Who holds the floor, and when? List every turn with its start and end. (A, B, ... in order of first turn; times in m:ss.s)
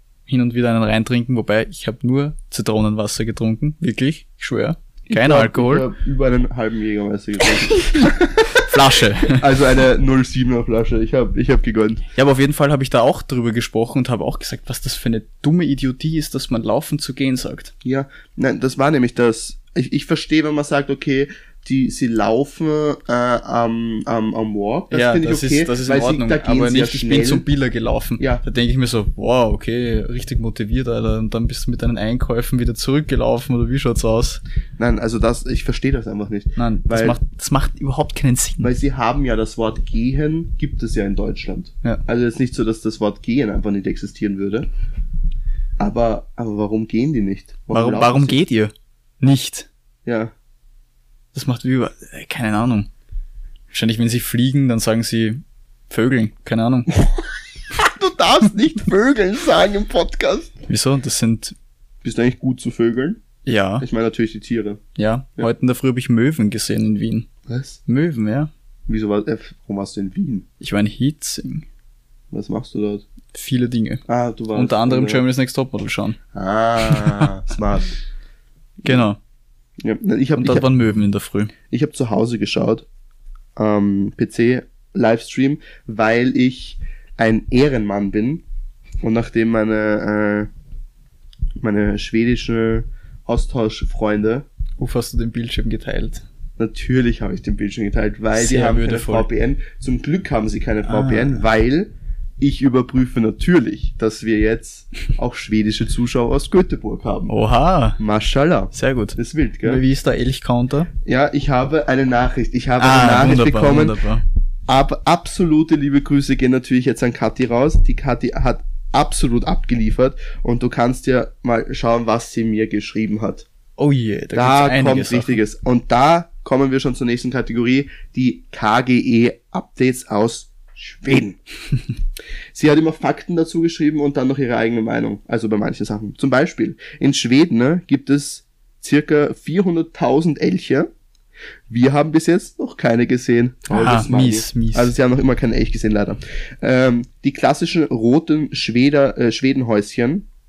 0:00.3-0:05.9 A
0:05.1-0:08.6 B
0:08.5-0:09.4 A
0:09.3-0:12.0 B
0:12.1-0:17.7 A
0:17.8-0:27.4 B
0:24.9-0:34.4 A
0:34.8-0:37.2 B
0:36.6-0:38.7 A
0:38.6-0:44.7 B
0:45.8-0:48.4 B
0:47.7-0:49.7 A
0:50.0-0:50.3 B
0:51.3-0:52.9 A
0:53.7-0:57.0 A
0:57.7-1:00.5 B
1:00.7-1:01.5 A
1:02.0-1:03.2 B
1:03.4-1:03.8 A
1:03.8-1:04.8 B
1:05.0-1:07.3 A
1:07.5-1:07.8 B
1:07.8-1:08.5 A
1:08.9-1:10.4 B
1:10.6-1:11.6 A
1:12.3-1:13.0 B
1:13.3-1:16.2 A
1:14.1-1:15.2 B
1:16.3-1:17.9 B
1:16.9-1:17.2 A
1:18.8-1:19.2 A
1:19.8-1:20.7 B
1:20.4-1:21.5 A
1:21.7-1:22.8 B
1:23.6-1:28.4 B
1:29.0-1:30.5 B
1:31.6-1:34.4 B
1:34.8-1:36.2 A
1:36.6-1:47.3 B
1:38.3-1:39.3 A
1:40.9-1:41.4 A
1:47.3-1:48.0 A
1:48.0-1:49.8 B
1:48.7-1:50.9 A
1:51.0-1:54.0 B
1:52.8-1:54.2 A
1:54.7-2:03.5 B
2:03.8-2:05.4 A
2:04.3-2:11.4 B
2:12.5-2:20.9 B
2:21.7-2:30.3 B
2:23.7-2:24.9 A